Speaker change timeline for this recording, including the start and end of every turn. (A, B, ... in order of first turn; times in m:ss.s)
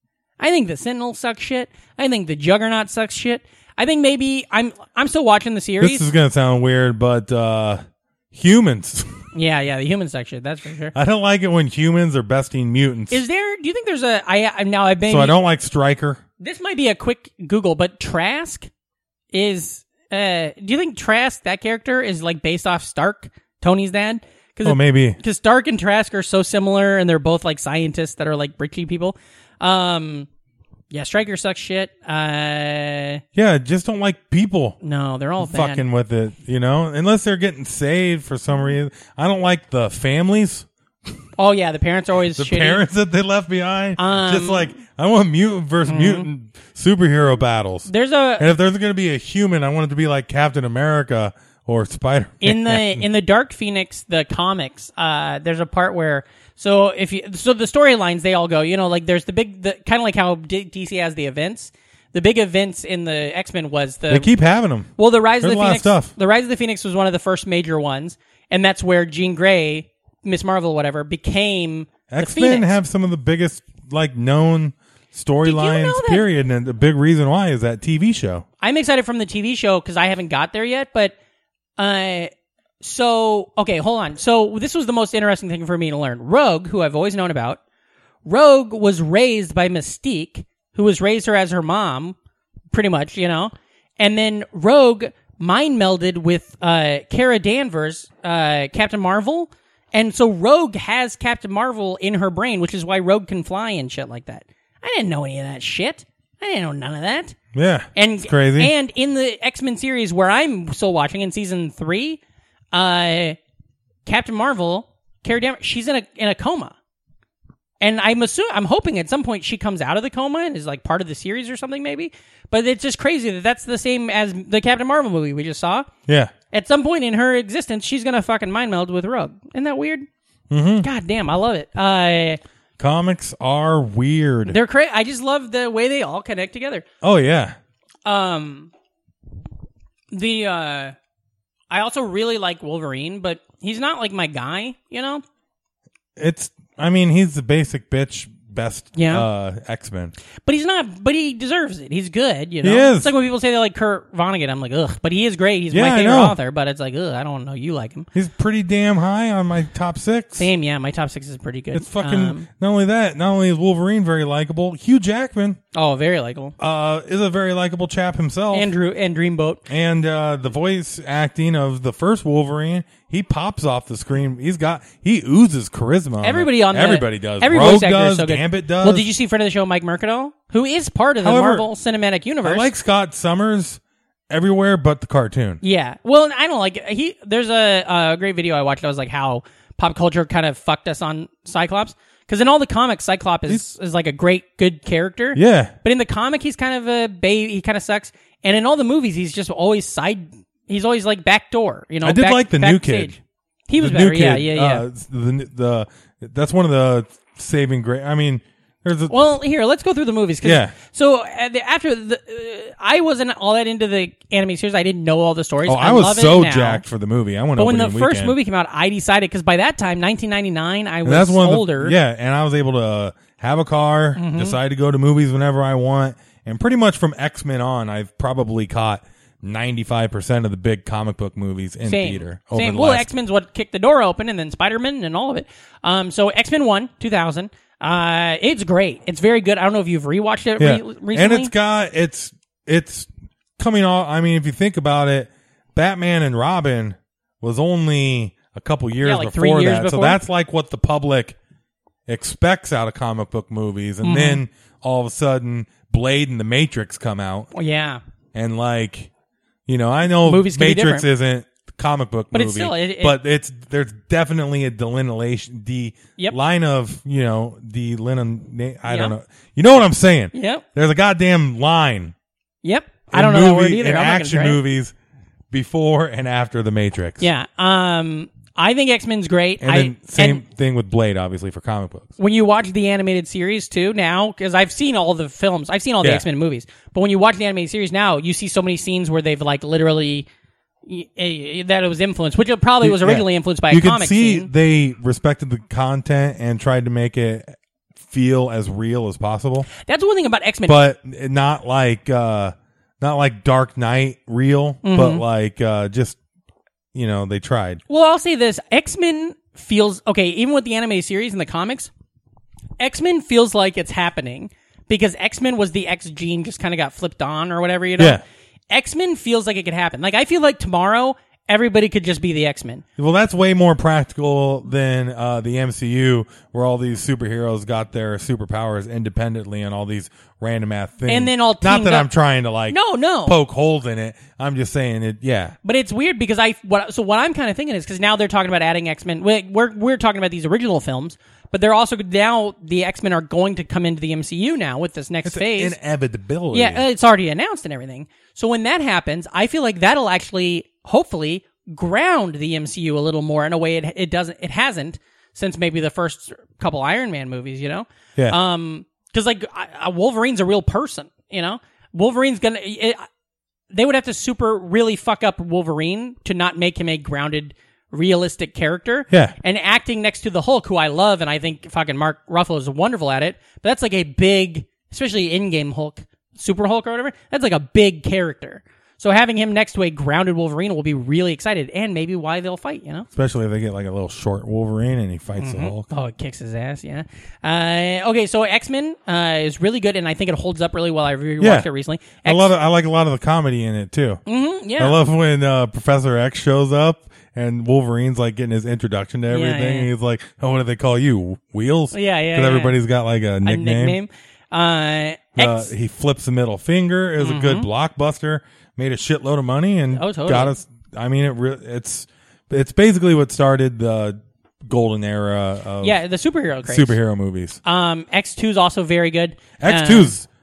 0:00.4-0:06.0 A
0:05.8-0:09.2 B
0:09.3-0:10.9 A
0:10.9-0:13.2 B
0:13.1-0:15.3 A
0:15.0-0:16.2 B
0:16.4-0:18.7 A
0:19.3-0:30.3 A
0:24.6-0:25.2 B
0:30.9-0:33.2 A
0:33.3-0:34.8 B
0:34.8-0:35.8 A
0:35.4-0:40.7 B
0:41.4-0:42.8 A
0:42.3-0:53.0 B
0:44.0-0:44.8 A
0:45.8-0:46.3 A
0:47.9-0:48.5 A
0:52.4-1:04.3 A
1:04.1-1:06.1 B
1:05.0-1:12.7 A
1:12.1-1:18.4 B
1:15.4-1:16.2 A
1:18.6-1:21.1 A
1:21.8-1:27.6 A
1:28.2-1:32.2 A
1:32.7-1:47.4 A
1:47.5-1:48.7 B
1:47.9-1:52.2 A
1:52.7-1:53.4 A
1:54.0-1:56.7 A
1:57.8-2:05.9 A
2:06.1-2:06.3 B
2:06.5-2:10.1 A
2:10.5-2:10.9 B
2:10.8-2:12.4 A
2:12.8-2:14.6 B
2:14.4-2:16.8 A
2:17.0-2:17.6 B
2:18.0-2:18.7 A
2:20.1-2:20.9 A
2:21.7-2:25.2 A
2:26.2-2:30.1 B
2:28.9-2:29.2 A
2:30.4-2:38.1 A
2:32.6-2:33.1 B
2:35.7-2:36.3 B
2:38.1-2:40.5 B
2:40.4-2:42.5 A
2:41.7-2:45.6 B
2:45.7-2:46.5 A
2:46.6-2:48.7 B
2:48.5-2:49.6 A
2:49.7-2:59.1 B
2:56.2-3:02.7 A
3:01.2-3:01.7 B
3:02.4-3:05.6 B
3:05.6-3:24.8 A
3:15.3-3:15.7 B
3:22.0-3:23.2 B
3:23.8-3:29.1 B
3:29.1-3:36.8 A
3:30.4-3:30.7 B
3:35.6-3:38.4 B
3:37.6-3:41.9 A
3:41.0-3:53.1 B
3:44.2-3:44.6 A
3:51.8-4:01.5 A
4:00.6-4:11.4 B
4:09.0-4:10.2 A
4:12.1-4:17.5 B
4:14.0-4:14.4 A
4:17.5-4:18.0 A
4:18.3-4:19.1 B
4:19.7-4:32.1 B
4:20.2-4:21.0 A
4:22.3-4:23.2 A
4:28.9-4:29.1 A
4:30.3-4:30.6 A
4:32.6-4:34.6 A
4:33.1-4:34.9 B
4:35.5-4:37.2 B
4:37.2-4:40.4 A
4:39.6-4:42.1 B
4:42.2-4:50.3 A
4:46.0-4:46.2 B
4:50.8-4:54.5 A
4:52.8-4:59.7 B
4:59.7-5:00.8 A
5:00.6-5:06.2 B
5:04.8-5:05.2 A
5:06.9-5:07.8 B
5:07.9-5:11.9 A
5:12.8-5:22.8 A
5:18.0-5:18.2 B
5:23.0-5:35.5 B
5:31.1-5:32.1 A
5:32.7-5:33.4 A
5:35.6-5:45.8 A
5:45.2-5:46.8 B
5:46.5-6:03.0 A
6:03.7-6:23.1 A
6:09.1-6:09.3 B
6:23.1-6:25.9 B
6:25.4-6:32.5 A
6:31.4-6:31.7 B
6:32.2-6:34.2 B
6:34.2-6:35.0 A
6:34.8-6:44.0 B
6:39.3-6:39.9 A
6:41.9-6:42.8 A
6:43.4-6:45.7 A
6:45.4-6:56.0 B
6:47.2-6:47.7 A
6:49.9-6:50.5 A
6:55.8-6:57.0 A
6:56.6-6:57.6 B
6:57.6-7:00.1 A
6:59.6-7:00.3 B